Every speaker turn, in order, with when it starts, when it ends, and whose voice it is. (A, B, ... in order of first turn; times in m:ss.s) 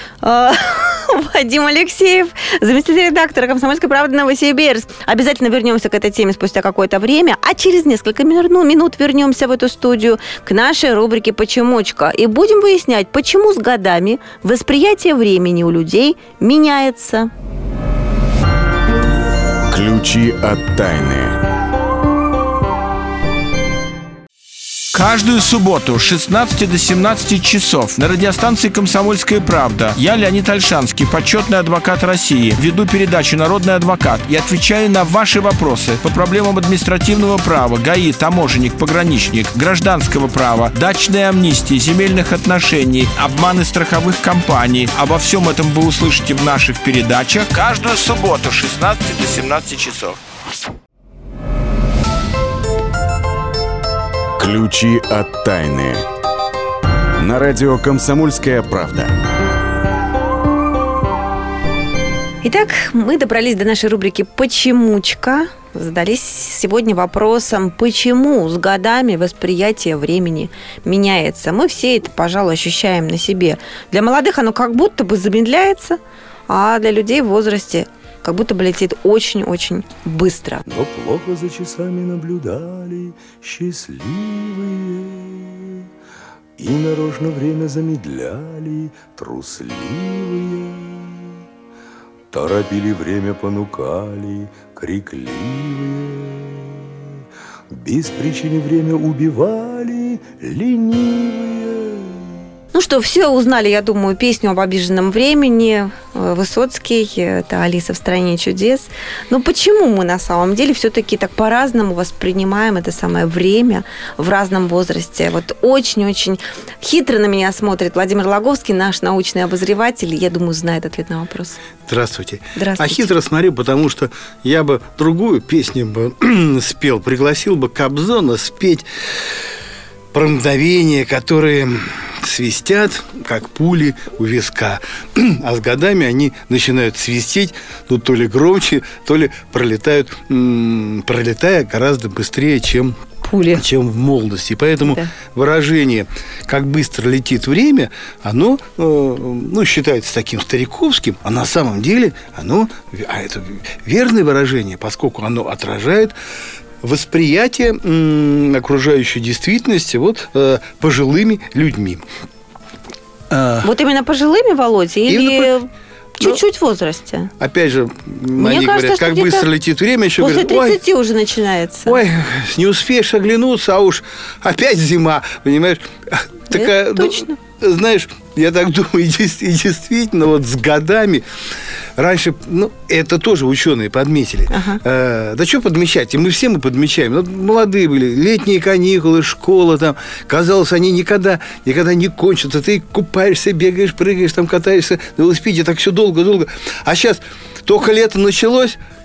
0:00.2-0:17.3 A
0:19.7-0:21.4 B
0:24.9-0:50.2 C
0:54.4-0:56.0 B
0:57.2-0:59.1 B
1:02.4-1:20.6 A
1:20.7-1:25.8 D
1:26.6-1:31.2 D
1:32.3-1:36.7 D
1:37.7-1:42.2 D
1:42.7-2:01.6 A
2:01.9-2:08.8 E
2:02.6-2:03.1 A
2:10.1-2:23.0 E
2:23.2-2:23.6 A
2:23.5-2:36.1 E
2:24.8-2:25.1 A
2:36.8-2:42.0 E
2:43.3-2:43.7 E
2:43.6-2:45.7 A
2:45.1-2:45.5 E
2:46.2-2:47.3 A
2:47.4-2:50.8 E
2:48.4-2:49.5 A
2:50.2-2:52.0 A
2:51.8-3:01.2 E
2:56.5-2:57.3 A
3:02.0-3:18.8 E
3:04.5-3:04.8 A